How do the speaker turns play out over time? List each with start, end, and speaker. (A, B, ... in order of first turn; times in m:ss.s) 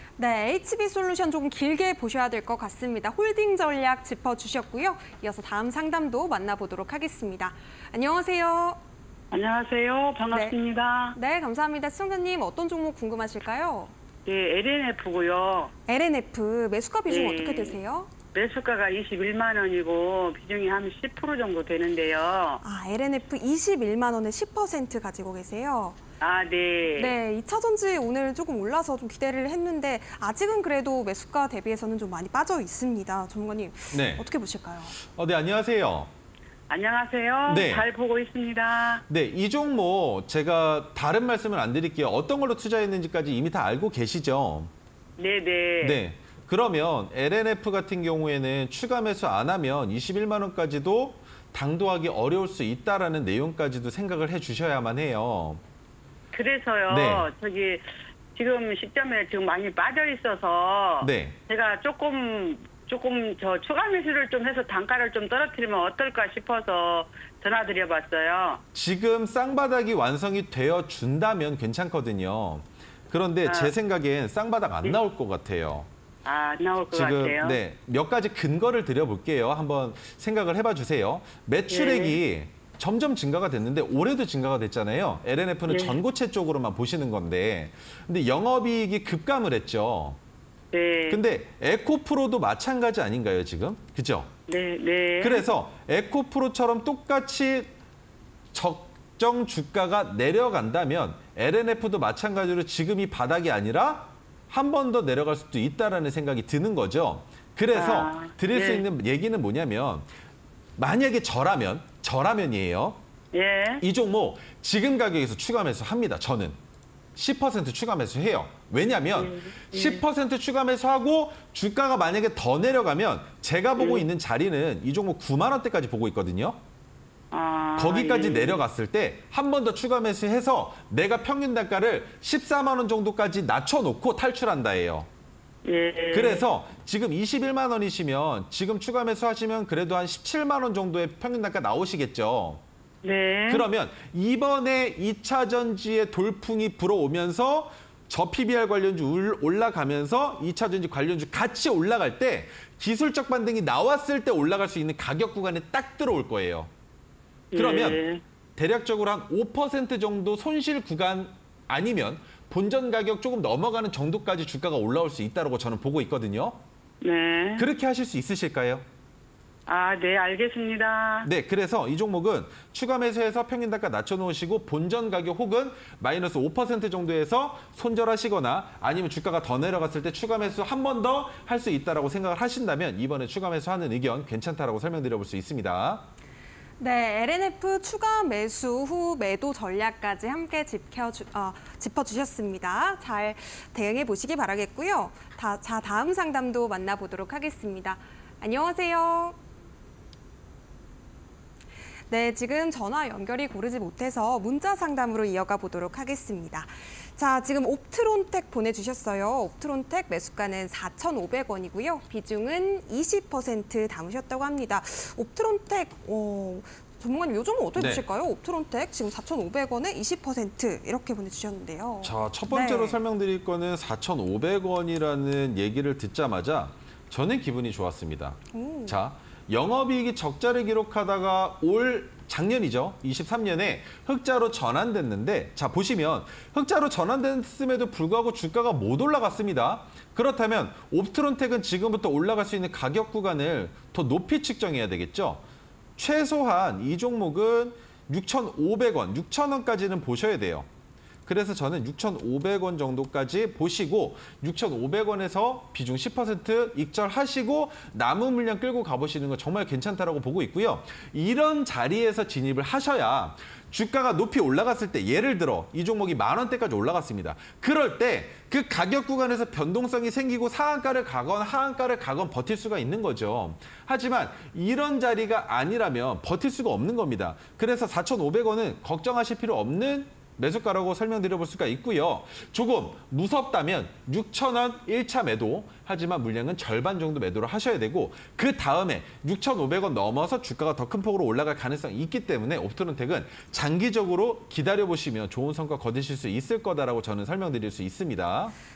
0:00.2-0:08.8 A
0:09.3-0:11.2 B
0:10.3-0:10.6 A
0:11.1-0:13.9 A
0:14.2-0:15.7 B
0:15.9-0:18.1 A
0:17.1-0:17.8 B
0:18.3-0:22.6 B
0:22.6-0:26.0 A
0:26.2-0:27.1 B
0:27.0-0:35.0 A
0:33.9-0:34.3 C
0:35.0-0:36.1 C
0:36.7-0:39.0 B
0:37.4-0:37.9 C
0:39.1-0:44.7 C
0:45.2-0:46.0 B
0:45.8-0:55.6 C
0:56.3-0:57.8 B
0:56.9-0:57.3 C
0:58.4-1:08.6 B
1:01.0-1:01.4 C
1:08.7-1:15.9 C
1:13.4-1:13.7 B
1:16.2-1:17.6 B
1:16.9-1:30.2 C
1:21.7-1:22.2 B
1:25.7-1:26.0 B
1:30.7-1:31.2 B
1:31.1-1:34.3 C
1:34.5-1:35.4 B
1:35.2-1:37.7 C
1:38.5-1:50.0 C
1:47.7-1:48.8 B
1:50.8-1:53.0 C
1:53.3-1:53.8 B
1:53.8-1:56.6 C
1:57.2-2:06.6 C
1:59.2-2:00.0 B
2:03.8-2:04.0 B
2:07.3-2:08.6 B
2:07.8-2:15.1 C
2:15.6-2:16.4 B
2:16.1-2:22.6 C
2:23.0-2:23.6 B
2:23.5-2:36.7 C
2:37.5-2:38.2 B
2:37.5-2:38.0 C
2:38.6-2:46.6 C
2:47.0-2:47.6 B
2:47.6-2:48.8 C
2:49.7-2:51.3 B
2:51.2-3:06.1 C
3:06.8-3:19.4 A
3:22.1-3:43.0 A
3:37.8-3:38.0 C
3:42.0-4:05.4 C
3:48.5-3:49.0 A
4:06.0-4:10.7 C
4:11.2-4:58.5 C